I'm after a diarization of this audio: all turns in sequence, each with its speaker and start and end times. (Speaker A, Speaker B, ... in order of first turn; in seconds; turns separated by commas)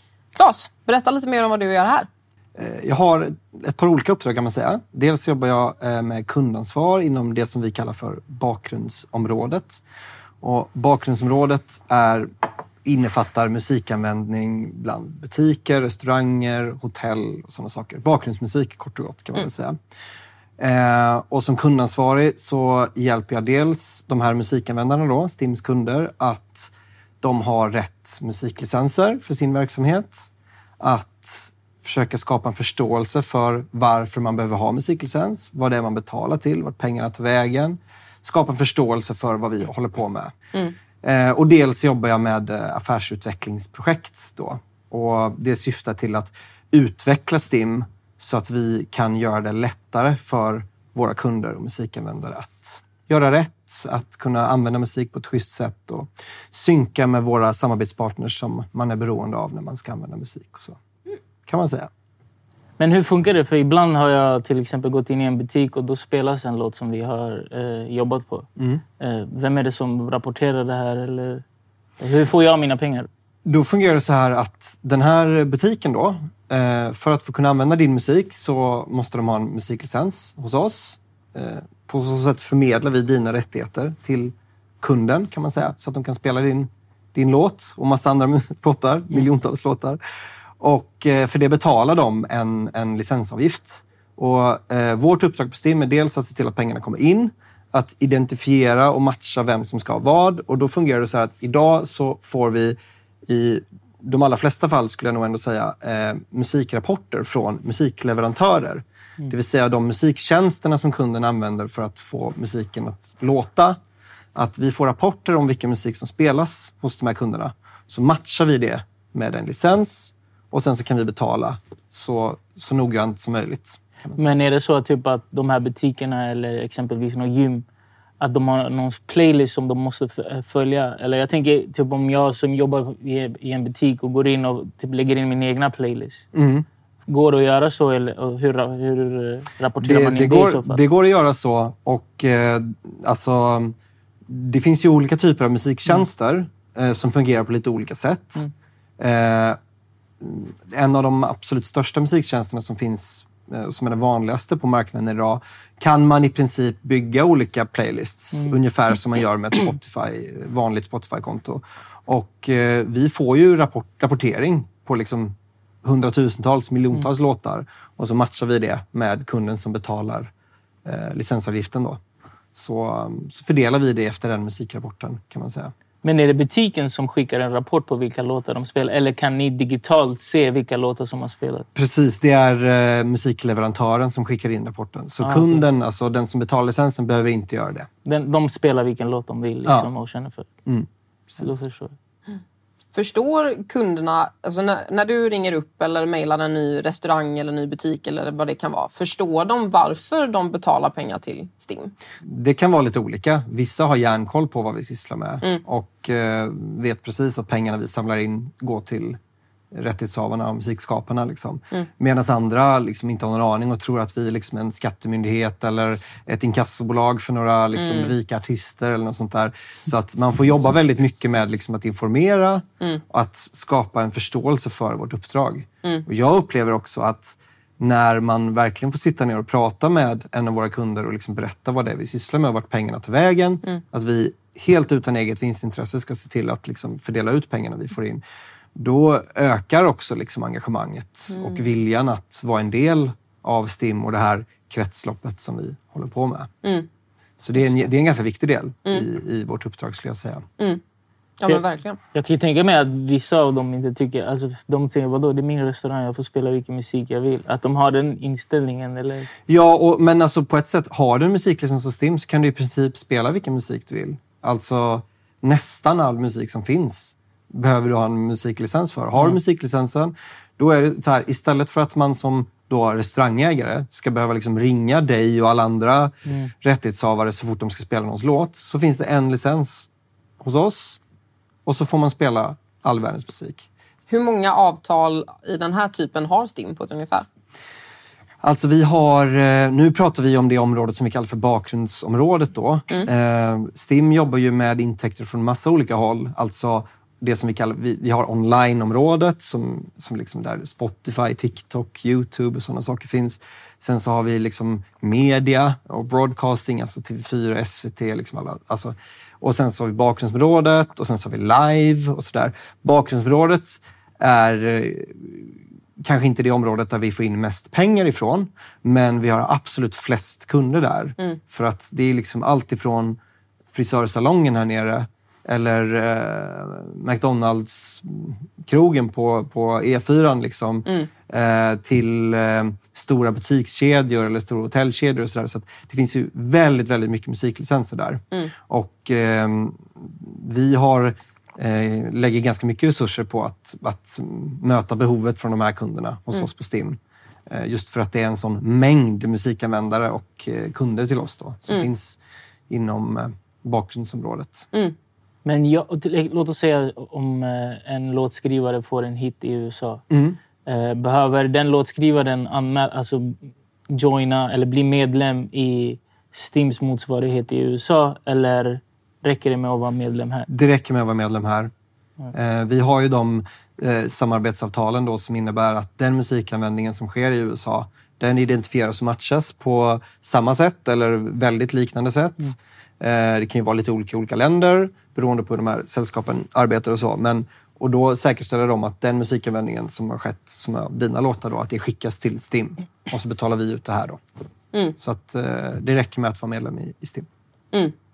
Speaker A: 0.3-2.1, Speaker B: 2.6-9.8, Speaker B: 10.4-12.3, Speaker B: 12.8-19.8, Speaker B: 20.6-30.3, Speaker B: 30.8-40.4, Speaker B: 41.0-60.8, Speaker B: 61.5-61.9, Speaker C: 62.8-68.5, Speaker C: 69.0-71.4, Speaker C: 72.0-73.1, Speaker B: 73.5-90.0, Speaker B: 90.6-113.8, Speaker B: 114.3-124.2, Speaker C: 124.2-127.7, Speaker C: 128.2-136.2, Speaker B: 136.3-136.7, Speaker C: 137.1-140.8, Speaker B: 139.8-143.8, Speaker B: 144.3-148.5, Speaker B: 149.0-149.6, Speaker B: 150.2-170.3, Speaker C: 158.3-158.6, Speaker B: 170.8-172.0, Speaker B: 172.6-175.7, Speaker C: 176.0-181.7, Speaker B: 181.8-187.9, Speaker C: 185.2-185.7, Speaker C: 188.1-190.5, Speaker B: 190.7-191.6, Speaker C: 191.4-191.9, Speaker A: 192.9-201.9, Speaker B: 202.2-209.2, Speaker B: 209.7-238.2, Speaker A: 217.8-218.2, Speaker B: 238.8-246.5, Speaker A: 241.3-241.6, Speaker A: 246.6-246.9, Speaker B: 247.4-250.5, Speaker A: 251.4-252.0, Speaker C: 252.1-259.3, Speaker B: 259.5-279.9, Speaker C: 276.3-276.5, Speaker B: 280.4-281.0, Speaker B: 281.7-283.7, Speaker A: 284.1-287.3, Speaker B: 288.4-323.2, Speaker B: 323.7-352.2, Speaker B: 352.7-354.7, Speaker C: 355.4-360.0, Speaker B: 360.1-360.4, Speaker C: 360.7-370.5, Speaker B: 370.5-371.7, Speaker B: 372.3-394.2, Speaker B: 395.0-397.3